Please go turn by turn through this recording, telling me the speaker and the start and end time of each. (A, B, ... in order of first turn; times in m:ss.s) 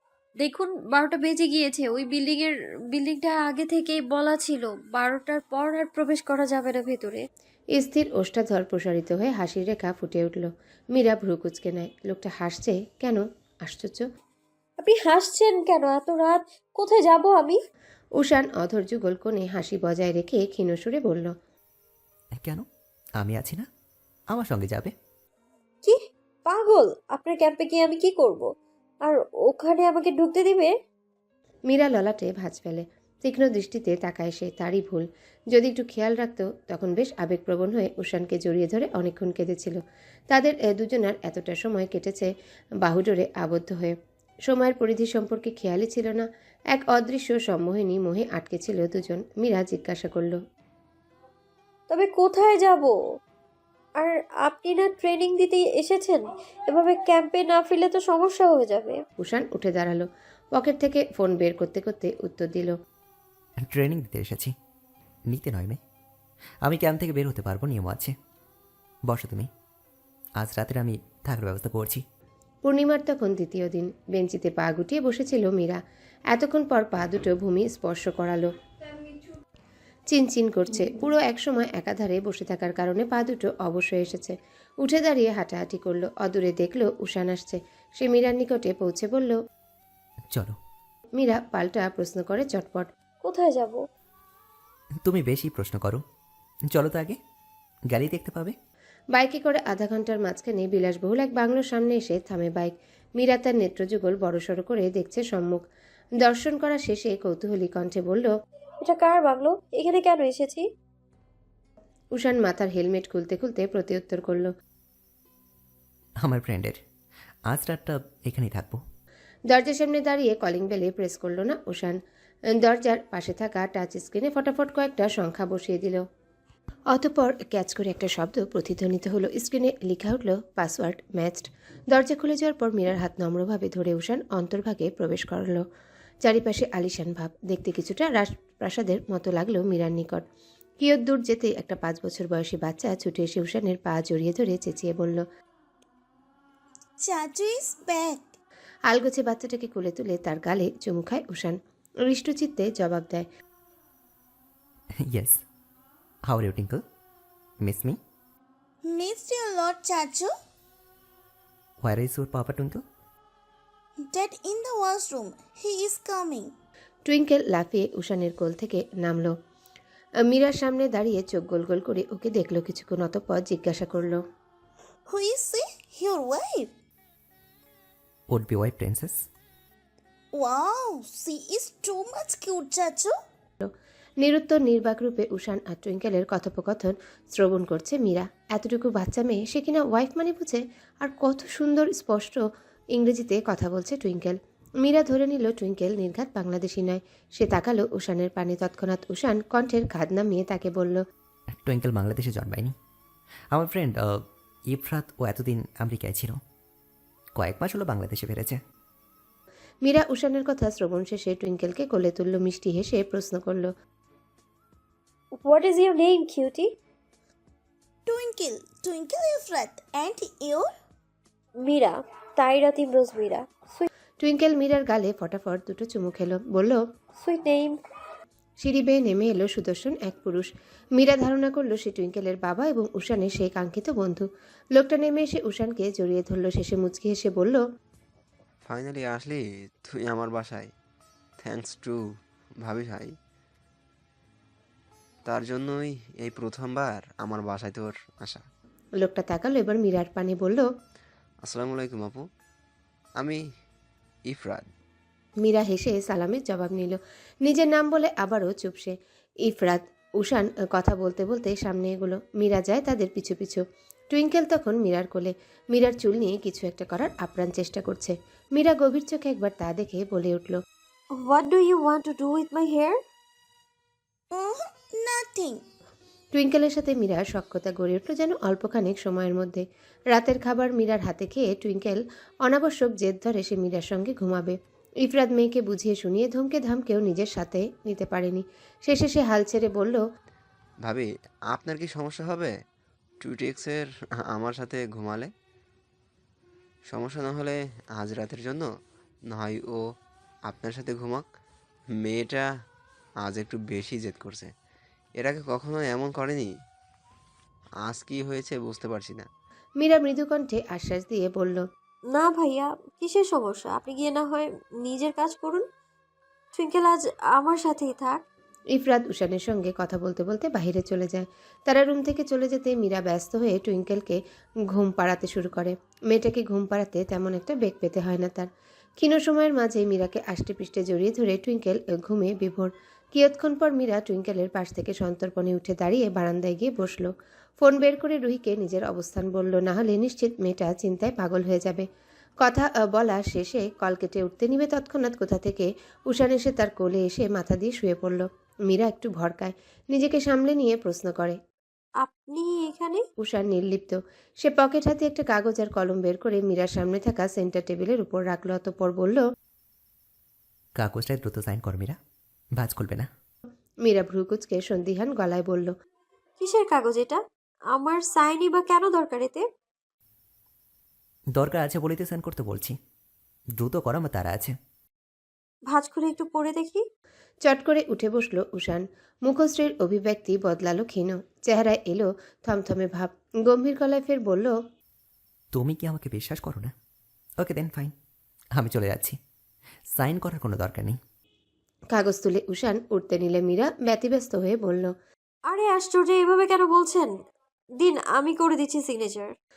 0:00.4-0:07.2 A
0:07.7-0:14.1 B
0:14.8-0:17.6 A
0:18.2-0:21.3 B
0:22.4-0:22.6 C
0:23.2-0:23.7 C
0:24.3-0:24.9 C
0:25.8-0:28.5 A
0:29.0-0:30.7 A
0:31.7-0:42.3 B
0:42.8-0:50.4 B
0:51.9-0:53.0 A
0:54.0-0:59.0 A
0:59.2-1:02.8 B
1:03.6-1:04.5 C
1:05.3-1:05.8 C
1:06.6-1:08.2 C
1:09.1-1:09.5 C
1:10.4-1:12.0 C
1:12.6-1:15.8 B
1:16.3-1:18.5 B
1:20.1-1:29.4 B
1:30.3-1:30.6 C
1:31.2-1:32.9 B
1:33.2-1:33.8 A
1:35.0-1:36.0 C
1:36.7-1:37.2 C
1:37.9-1:38.6 C
1:39.1-1:45.6 B
1:46.2-1:48.3 B
1:48.8-1:50.7 A
1:52.2-1:54.5 B
1:56.2-1:56.8 C
1:57.5-1:58.8 C
1:59.5-2:02.0 B
2:02.6-2:06.0 B
2:06.9-2:15.6 B
2:16.2-2:20.2 B
2:20.8-2:25.2 B
2:27.0-2:28.4 D
2:28.9-2:33.3 B
2:35.0-2:35.4 C
2:36.3-2:36.8 C
2:37.6-2:38.0 C
2:38.8-2:40.3 D
2:41.8-2:42.8 C
2:44.0-2:46.5 D
2:47.1-2:49.4 B
2:50.2-2:54.2 B
2:55.1-2:56.7 D
2:58.3-2:59.3 C
3:00.3-3:03.1 D
3:03.6-3:21.0 B
3:21.6-3:22.8 C
3:23.5-3:26.4 C
3:27.4-3:28.6 C
3:29.8-3:33.7 B
3:35.4-3:36.8 A
3:38.1-3:40.7 D
3:41.6-3:43.9 A
3:44.2-3:46.8 B
3:47.2-3:47.8 A
3:48.6-3:57.6 B
3:58.6-4:00.7 E
4:01.4-4:02.0 E
4:02.6-4:03.1 E
4:05.3-4:08.5 E
4:09.0-4:10.7 B
4:11.5-4:12.3 E
4:14.3-4:14.7 E
4:15.4-4:30.6 B
4:31.2-4:33.0 A
4:34.3-4:35.6 D
4:36.3-4:50.0 B
4:50.8-4:52.5 E
4:53.2-4:55.3 E
4:56.9-4:58.7 E
4:59.3-4:59.8 E
5:00.5-5:01.2 E
5:02.0-5:02.5 E
5:03.2-5:04.5 E
5:05.2-5:06.5 E
5:07.8-5:09.3 E
5:09.8-5:11.7 B
5:12.1-5:15.7 A
5:16.6-5:18.2 A
5:18.7-5:24.2 B
5:24.7-5:41.9 B
5:42.4-5:51.4 B
5:52.0-5:53.0 A
5:53.2-5:59.2 B
6:00.8-6:02.0 C
6:02.6-6:03.1 C
6:03.8-6:05.8 B
6:06.4-6:09.4 A
6:11.4-6:12.8 C
6:13.6-6:14.6 C
6:15.7-6:16.8 A
6:17.4-6:24.6 B
6:25.5-6:26.7 C
6:27.4-6:27.9 C
6:28.6-6:29.2 C
6:30.0-6:31.0 C
6:31.9-6:34.9 B
6:35.5-6:37.2 A
6:37.8-6:39.3 A